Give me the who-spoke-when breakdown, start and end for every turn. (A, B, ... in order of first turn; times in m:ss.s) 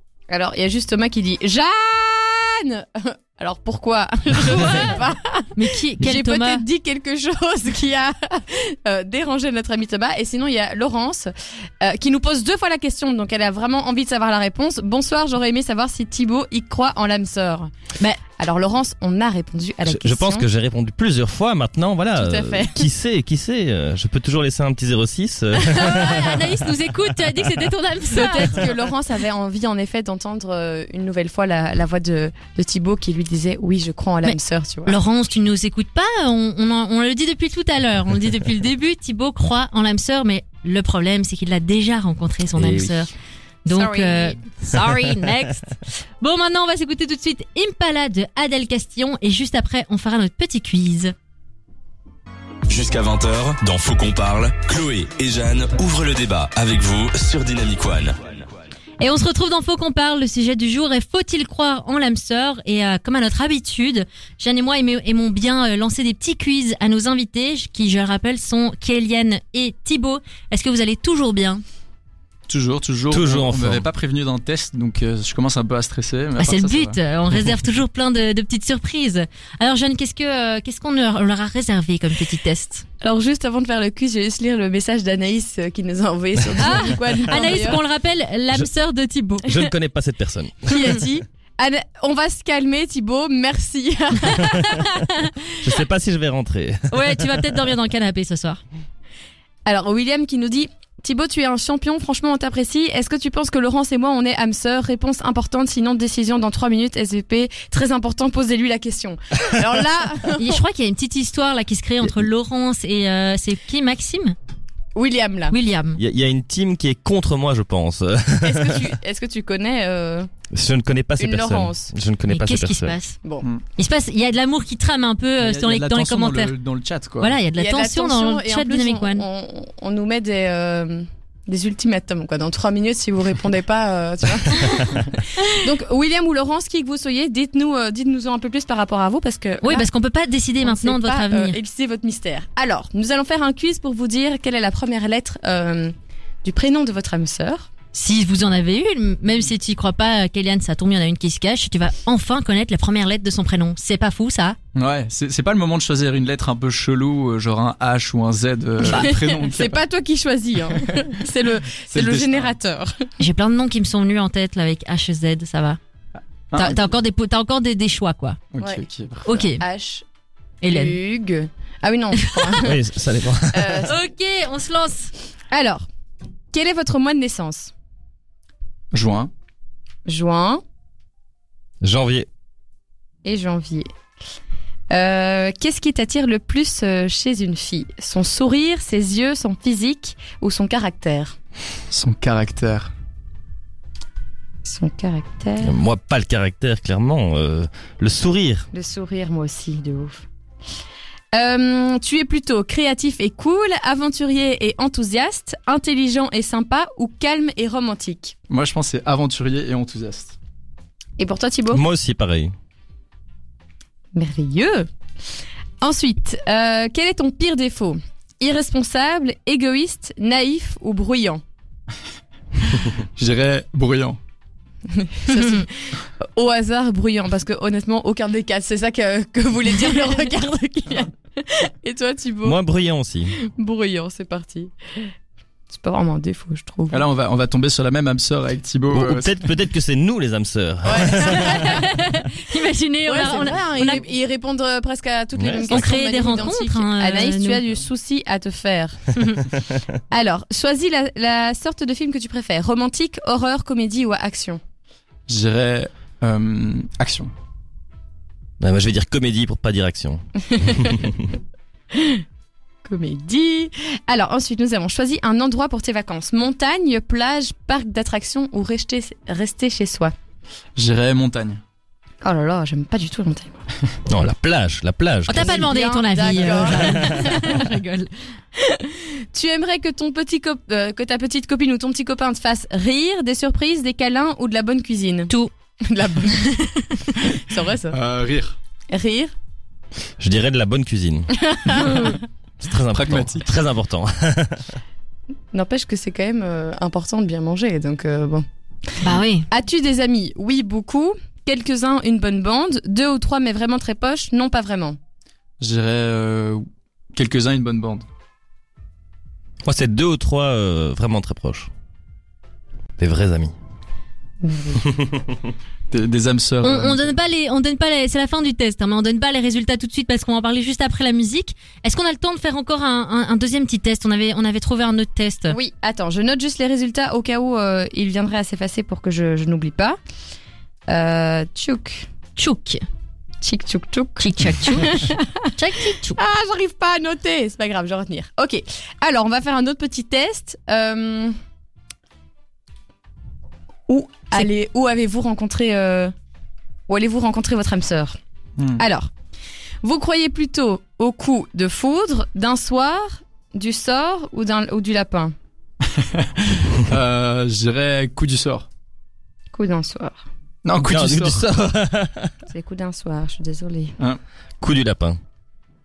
0:00.3-0:17.7 A
0:04.5-0:05.0 B
0:05.5-0:06.6 B
0:18.4-0:20.4 A
0:19.8-0:26.6 C
0:22.2-0:22.8 A
0:25.6-0:28.7 B
0:28.1-0:35.0 A
0:34.2-0:43.1 B
0:42.6-0:42.9 C
0:43.6-0:51.1 B
0:43.7-0:44.4 A
0:44.7-0:45.1 C
0:52.7-0:58.4 D
0:59.0-1:11.6 B
1:12.5-1:17.0 E
1:13.1-1:13.8 C
1:16.4-1:22.8 B
1:23.0-1:27.8 A
1:26.6-1:29.5 B
1:29.4-1:30.8 C
1:30.6-1:34.9 A
1:34.9-1:35.3 B
1:35.6-1:37.6 C
1:36.9-1:38.6 B
1:39.6-1:50.6 A
1:50.4-1:54.4 B
1:54.9-1:55.5 A
1:55.5-1:56.0 B
1:56.0-1:58.9 C
1:58.4-2:00.3 A
2:00.5-2:03.0 C
2:01.2-2:01.9 A
2:02.3-2:03.2 B
2:03.8-2:06.5 B
2:05.4-2:07.4 E
2:07.2-2:09.2 B
2:07.5-2:19.9 A
2:19.6-2:21.6 B
2:20.6-2:27.7 A
2:27.9-2:34.6 B
2:34.7-2:39.8 E
2:38.8-2:43.0 A
2:41.9-2:42.5 E
2:43.2-2:45.8 B
2:46.5-2:46.8 E
2:46.5-2:48.4 B
2:48.5-2:49.4 E
2:49.2-2:49.6 B
2:49.5-2:50.0 A
2:50.6-2:51.0 B
2:50.6-2:52.8 A
2:52.2-2:52.6 B
2:52.6-2:53.9 C
2:53.5-2:54.0 A
2:53.9-2:55.1 B
2:55.5-2:55.8 A
2:56.5-2:57.7 A
2:58.9-2:59.3 E
3:00.0-3:00.6 A
3:01.8-3:02.3 C
3:03.2-3:03.9 A
3:04.9-3:11.4 A
3:11.9-3:12.9 E
3:14.6-3:15.7 A
3:15.6-3:18.7 C
3:18.7-3:20.2 A
3:21.3-3:28.3 A
3:28.5-3:30.4 E
3:31.2-3:31.8 A
3:31.7-3:32.5 C
3:34.1-3:34.9 A
3:35.8-3:41.4 A
3:42.7-3:44.2 E
3:44.9-3:52.6 A
3:52.4-3:53.3 C
3:53.4-3:55.1 A
3:55.7-3:57.0 A
3:56.9-3:59.3 E
3:58.9-4:01.8 C
4:00.8-4:01.9 A
4:01.4-4:04.0 B
4:03.0-4:09.1 A
4:05.3-4:06.0 C
4:05.7-4:07.6 B
4:09.2-4:09.4 B
4:10.1-4:14.6 A
4:15.3-4:17.3 E
4:18.6-4:21.2 C
4:20.5-4:21.0 A
4:21.9-4:22.2 A
4:22.8-4:30.1 A
4:30.8-4:31.6 E
4:32.2-4:33.6 A
4:34.1-4:35.7 C
4:35.3-4:38.1 B
4:35.3-4:37.7 A
4:36.7-4:37.1 C
4:38.6-4:45.3 A
4:45.8-4:48.0 A
4:47.9-4:48.6 E
4:48.9-4:49.3 A
4:50.2-4:52.0 C
4:51.4-4:52.2 A
4:52.6-4:54.8 C
4:52.9-4:53.5 E
4:55.5-4:58.4 A
4:59.0-4:59.5 B
4:59.5-5:05.0 A
5:05.6-5:08.0 E
5:09.6-5:11.7 C
5:13.0-5:13.5 C
5:14.4-5:14.9 A
5:15.9-5:17.1 E
5:16.6-5:25.6 B
5:25.5-5:30.0 A
5:30.9-5:32.1 A
5:32.4-5:32.8 B
5:33.4-5:35.3 A
5:34.2-5:36.2 B
5:36.1-5:41.3 A
5:43.9-5:46.1 A
5:46.9-5:48.2 A
5:48.6-5:48.8 E
5:48.8-5:49.1 A
5:49.8-5:55.3 A
5:55.8-5:58.7 E
5:59.5-6:00.2 A
6:00.6-6:01.4 E
6:00.8-6:02.3 C
6:02.5-6:04.0 A
6:04.6-6:05.2 C